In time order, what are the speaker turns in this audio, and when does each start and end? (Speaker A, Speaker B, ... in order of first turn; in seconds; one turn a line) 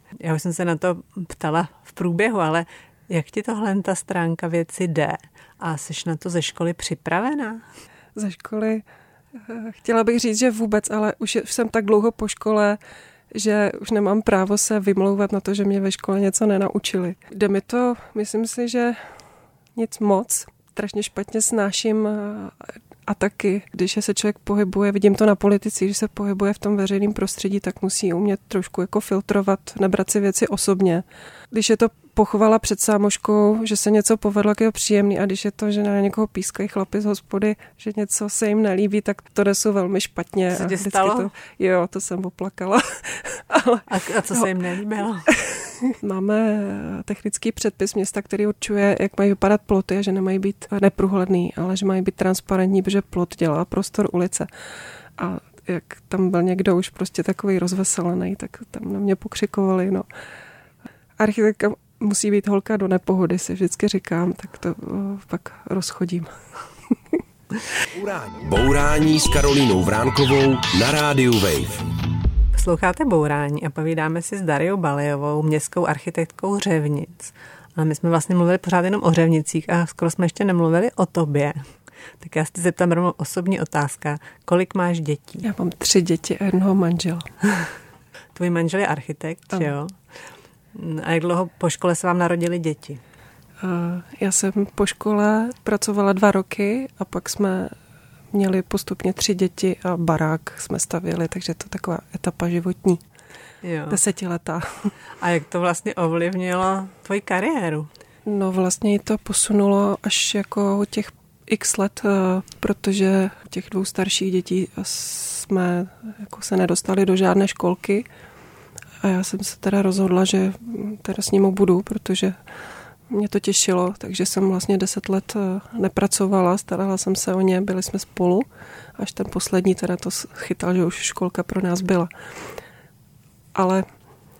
Speaker A: 0.2-7.6
Speaker B: 8.2-8.8
Speaker B: 9.4-12.8
Speaker B: 13.3-19.0
Speaker B: 19.8-22.6
Speaker B: 23.1-44.5
Speaker A: 40.5-41.3
Speaker A: 43.9-45.3
Speaker B: 45.9-54.5
Speaker B: 55.2-60.0
Speaker B: 61.2-66.3
Speaker C: 67.9-71.9
Speaker A: 72.5-81.6
Speaker A: 82.2-85.4
Speaker B: 85.4-87.3
Speaker A: 88.3-90.0
Speaker A: 90.7-93.0
Speaker B: 93.6-97.7
Speaker B: 98.3-103.0
Speaker A: 103.6-104.0
Speaker B: 103.9-104.9
Speaker A: 105.2-107.9
Speaker B: 108.3-118.0
Speaker B: 119.0-122.4
Speaker B: 123.1-128.4
Speaker B: 129.0-132.1
Speaker B: 133.5-133.8